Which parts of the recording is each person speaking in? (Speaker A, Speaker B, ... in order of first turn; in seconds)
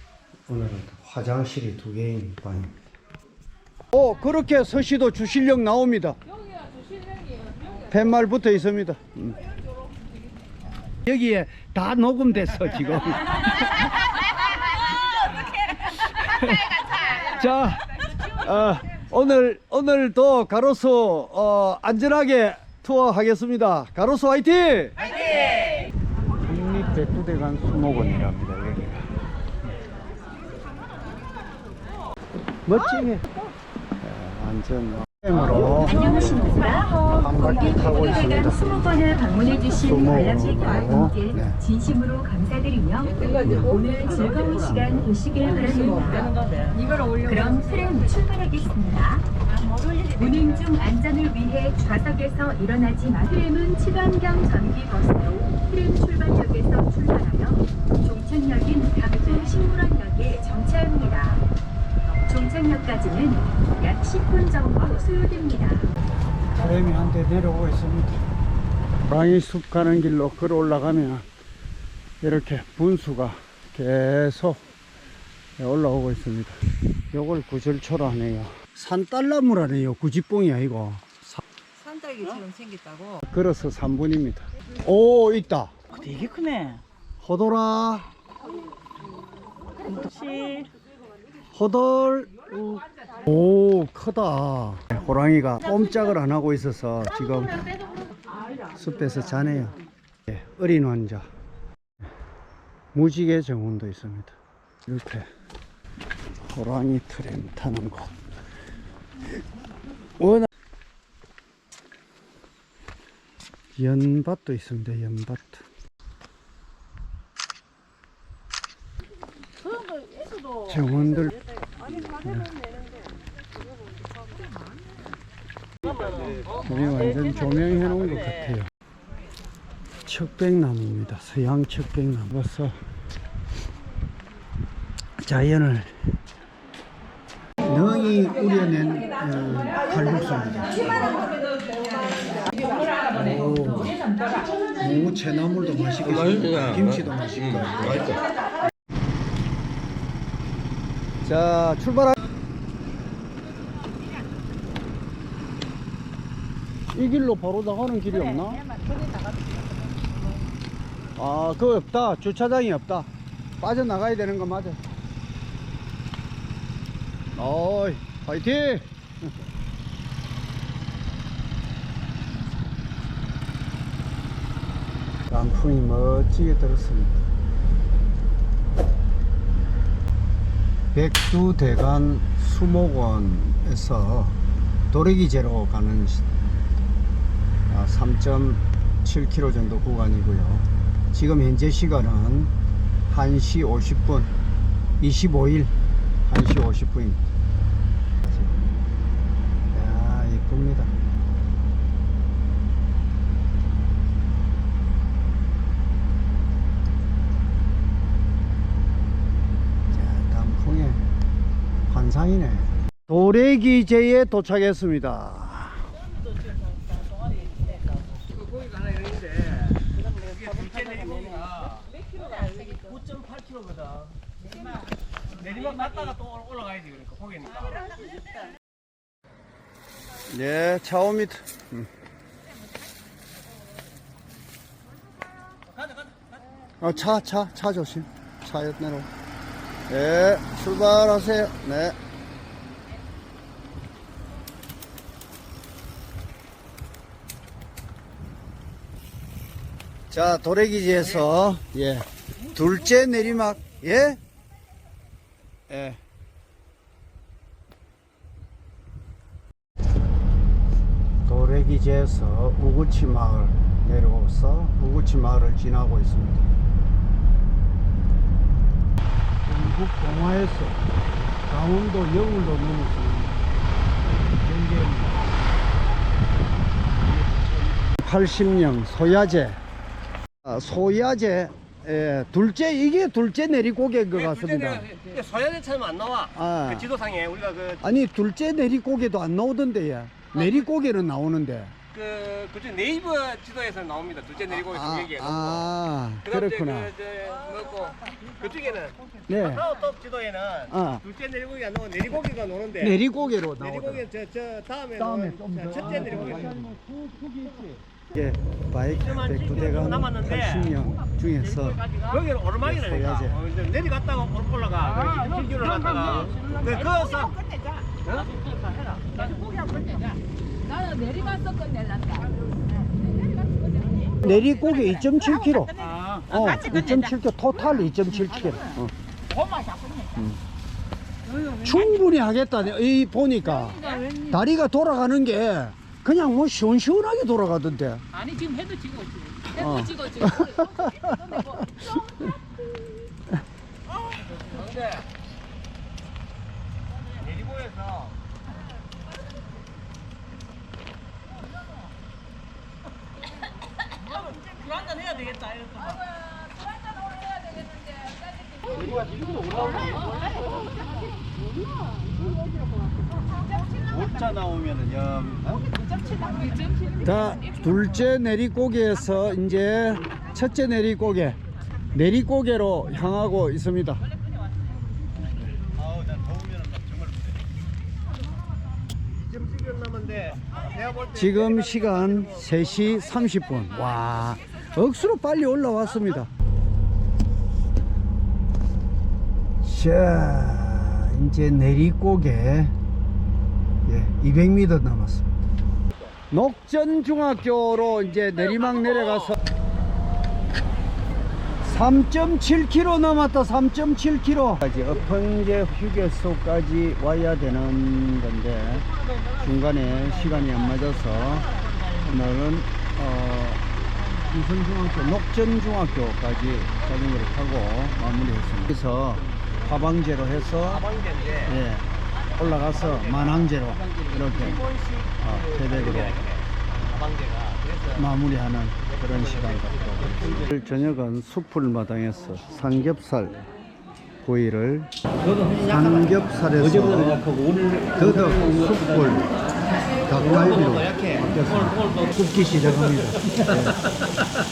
Speaker A: 0.5-2.8, 3.9-6.2, 7.9-9.4, 11.0-14.1, 15.8-24.9, 26.4-29.1, 32.6-33.2, 34.0-38.9, 39.7-41.6, 43.5-43.7, 66.5-68.2, 69.0-71.2, 72.2-74.6, 75.6-76.5, 77.1-81.4, 83.3-85.7, 87.2-88.1, 91.5-97.8, 98.7-101.3, 102.9-105.3, 106.5-108.2, 110.2-110.5, 113.8-115.7, 120.5-122.5, 126.6-128.7, 130.1-132.8, 135.2-136.2, 137.6-141.3, 143.1-144.1, 144.8-148.2, 151.2-152.2, 156.9-158.8, 161.2-163.1, 163.6-164.8, 167.3-168.9, 175.3-177.2, 180.9-184.4, 184.9-186.4, 187.7-192.5, 193.1-194.3, 195.0-195.7, 196.2-197.3, 198.2-198.6, 199.7-200.9, 209.9-211.0, 211.9-215.9, 230.3-231.9, 236.8-239.1, 239.9-242.0, 250.1-254.2, 255.7-256.0, 261.2-266.5, 269.4-270.8, 271.4-273.4, 274.3-275.3, 277.1-279.6, 280.4-284.9, 286.3-286.9, 287.8-291.7, 294.5-296.9, 299.3-299.7, 300.7-301.1, 302.8-304.1, 304.9-311.8, 312.6-313.4, 324.1-328.9, 330.1-330.4, 331.4-338.1, 339.4-342.2, 358.9-360.0, 363.7-365.7, 366.9-371.4, 371.9-374.0, 381.1-386.3, 389.6-392.7, 393.9-395.3, 396.3-399.4, 401.6-413.6, 414.2-420.9, 421.4-426.2, 427.9-433.4, 434.2-434.9, 435.5-437.4, 437.9-439.3, 440.0-443.9
Speaker B: 35.8-49.3, 50.0-61.4, 62.0-65.9
Speaker C: 49.5-49.9, 320.7-322.2, 329.6-330.0, 338.3-339.3
Speaker D: 81.8-83.2, 86.1-86.7, 89.9-90.7
Speaker E: 126.0-126.4, 218.5-219.6, 220.2-221.8, 222.7-224.1, 225.3-227.8, 284.2-287.8, 291.9-295.7, 296.3-302.9, 303.6-306.5, 309.1-310.6, 311.6-318.3, 318.9-320.1, 326.0-326.2, 344.5-344.8, 347.2-348.1, 354.3-356.0, 375.8-377.1, 379.3-382.2, 420.8-421.5, 422.9-423.4, 424.4-427.9